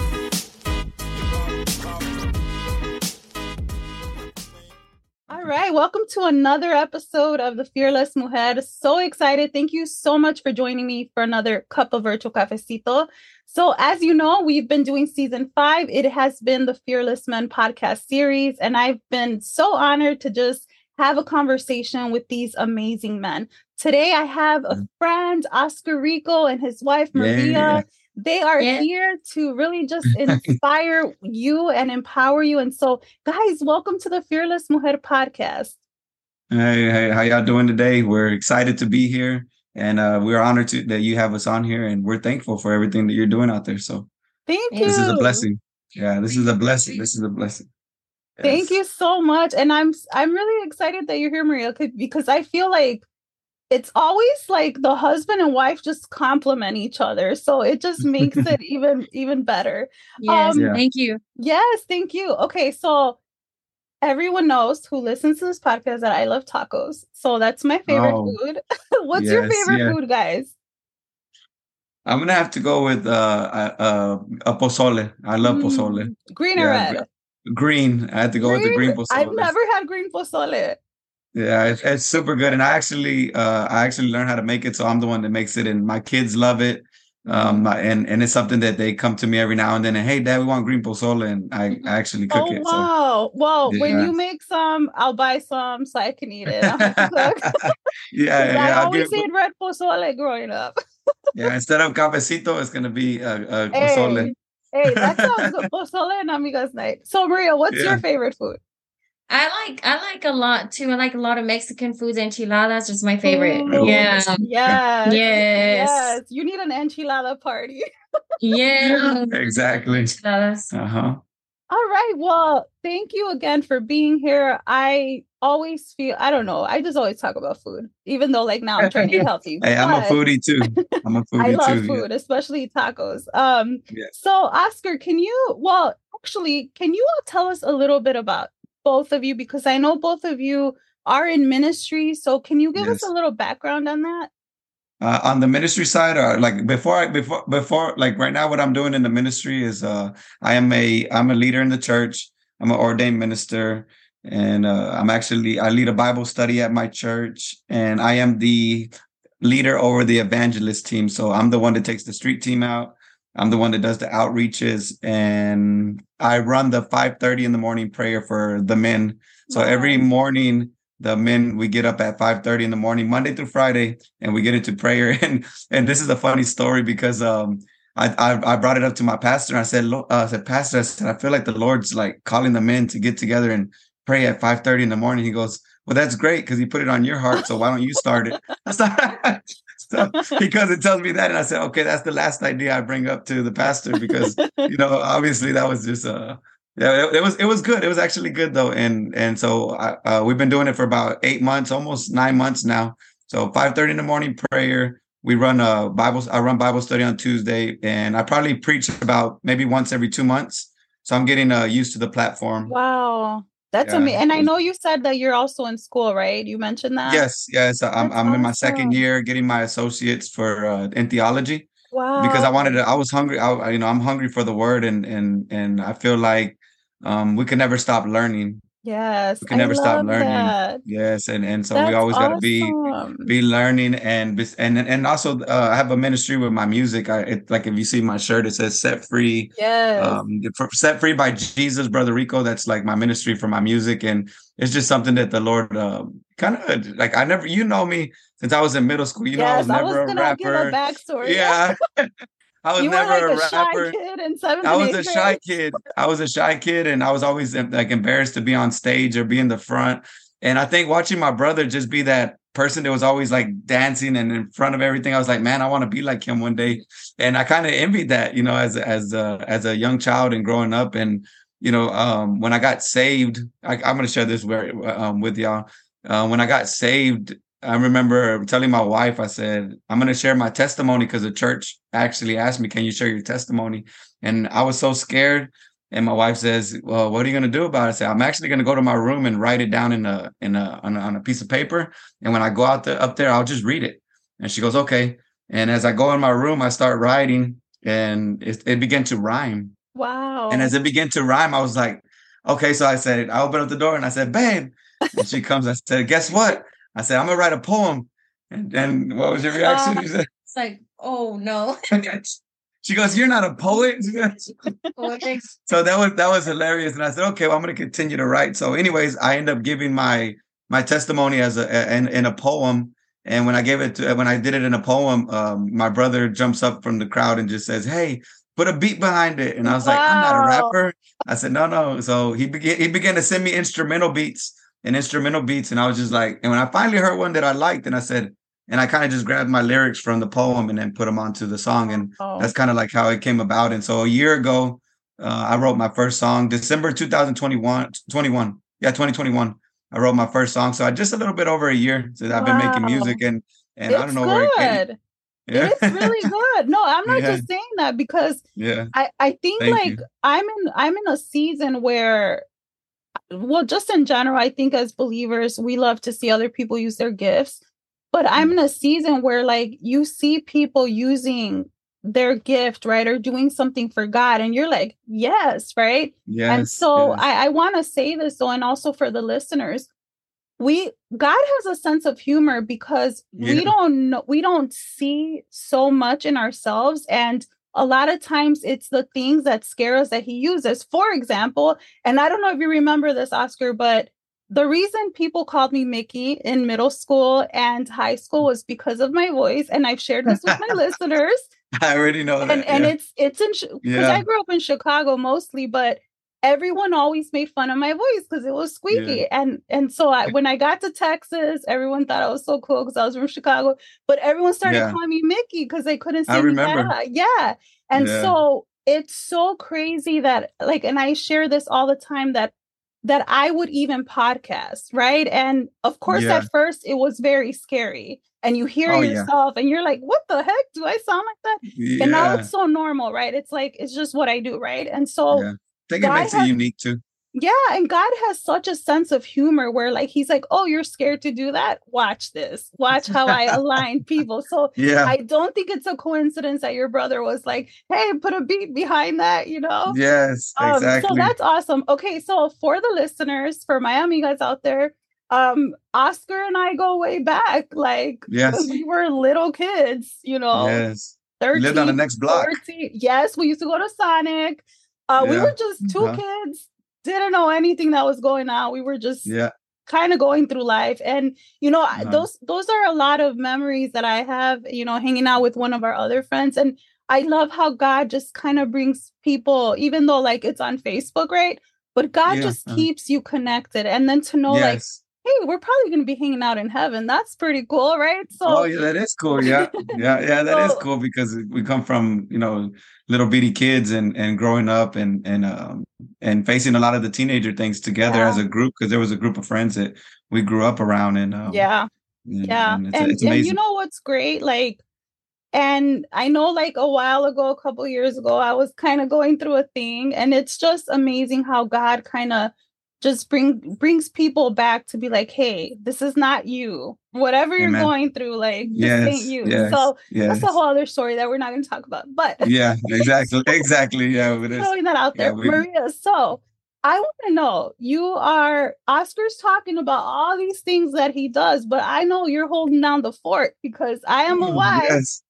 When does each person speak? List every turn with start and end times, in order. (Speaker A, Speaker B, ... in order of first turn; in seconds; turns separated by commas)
Speaker A: 5.3-35.8, Speaker B: 27.1-27.9, Speaker C: 28.6-28.9, Speaker B: 30.3-30.6, Speaker B: 36.5-44.1, Speaker A: 44.5-45.5, Speaker B: 44.8-47.7, Speaker B: 48.4-48.8, Speaker A: 48.4-53.0, Speaker A: 53.7-60.7, Speaker B: 58.2-58.5, Speaker C: 60.2-61.2, Speaker B: 60.5-60.8, Speaker A: 61.4-63.2, Speaker A: 64.0-70.5, Speaker B: 67.9-68.4, Speaker B: 69.1-70.0, Speaker B: 72.1-79.5, Speaker A: 75.4-77.0, Speaker A: 78.4-80.8, Speaker B: 81.3-92.9, Speaker A: 87.3-87.7, Speaker A: 92.3-97.7, Speaker B: 93.7-94.1, Speaker C: 93.8-94.1, Speaker B: 96.5-99.2, Speaker A: 98.4-100.8, Speaker B: 101.3-104.3, Speaker A: 103.7-108.6, Speaker B: 104.9-105.7, Speaker B: 107.7-108.0, Speaker C: 109.3-114.4, Speaker A: 113.2-117.8, Speaker B: 113.7-114.8, Speaker C: 115.0-116.2, Speaker C: 118.4-120.7, Speaker B: 118.8-120.1, Speaker B: 120.7-121.2, Speaker A: 121.7-130.2, Speaker B: 128.8-132.1, Speaker A: 130.8-144.3, Speaker B: 142.8-143.1, Speaker B: 145.0-212.7, Speaker A: 169.5-170.0, Speaker A: 190.1-190.4, Speaker A: 194.0-194.7, Speaker A: 212.7-217.2, Speaker B: 213.8-214.5, Speaker B: 217.1-228.6, Speaker A: 218.0-219.0, Speaker A: 221.9-222.8, Speaker A: 228.8-230.8, Speaker B: 229.4-252.1, Speaker A: 231.7-233.3, Speaker A: 239.6-240.2, Speaker A: 249.4-251.6, Speaker B: 252.6-254.0, Speaker A: 252.8-255.4, Speaker B: 254.6-299.8, Speaker A: 299.9-300.7, Speaker B: 300.5-310.3, Speaker C: 309.6-311.8, Speaker B: 311.9-314.6, Speaker C: 315.0-315.5, Speaker B: 315.7-354.8, Speaker A: 329.6-330.7, Speaker A: 341.9-342.5, Speaker A: 352.3-353.2, Speaker A: 353.9-355.0, Speaker B: 355.5-356.3, Speaker A: 355.5-362.4, Speaker B: 357.1-357.4, Speaker B: 358.6-358.9, Speaker B: 359.6-360.0, Speaker A: 363.3-367.6, Speaker A: 368.1-379.9, Speaker B: 376.3-377.2, Speaker A: 380.6-401.5, Speaker B: 383.4-383.7, Speaker B: 400.3-400.7, Speaker B: 401.8-402.9, Speaker A: 402.4-435.5, Speaker B: 403.8-404.3, Speaker B: 408.9-409.2, Speaker B: 414.6-415.0, Speaker B: 416.3-416.9, Speaker B: 418.0-418.4, Speaker B: 426.1-426.5, Speaker B: 428.9-429.3, Speaker B: 431.8-432.5, Speaker B: 435.3-437.0, Speaker A: 436.0-436.5, Speaker A: 437.4-450.0, Speaker B: 443.3-443.6, Speaker B: 444.8-445.1, Speaker B: 449.9-451.3, Speaker A: 450.6-460.8, Speaker B: 458.3-458.8, Speaker B: 460.5-462.6, Speaker A: 461.4-469.3, Speaker B: 465.2-466.2, Speaker B: 469.3-469.5, Speaker A: 469.9-488.7, Speaker B: 471.9-472.3, Speaker B: 482.3-482.9, Speaker B: 484.5-485.0, Speaker B: 488.4-501.6, Speaker A: 489.4-490.8, Speaker A: 498.0-498.4, Speaker A: 501.5-501.9, Speaker B: 502.3-503.6, Speaker A: 502.4-504.8, Speaker A: 505.5-523.6, Speaker B: 517.6-517.9, Speaker B: 518.8-520.5, Speaker B: 522.4-525.6, Speaker A: 524.5-535.0, Speaker B: 534.3-535.2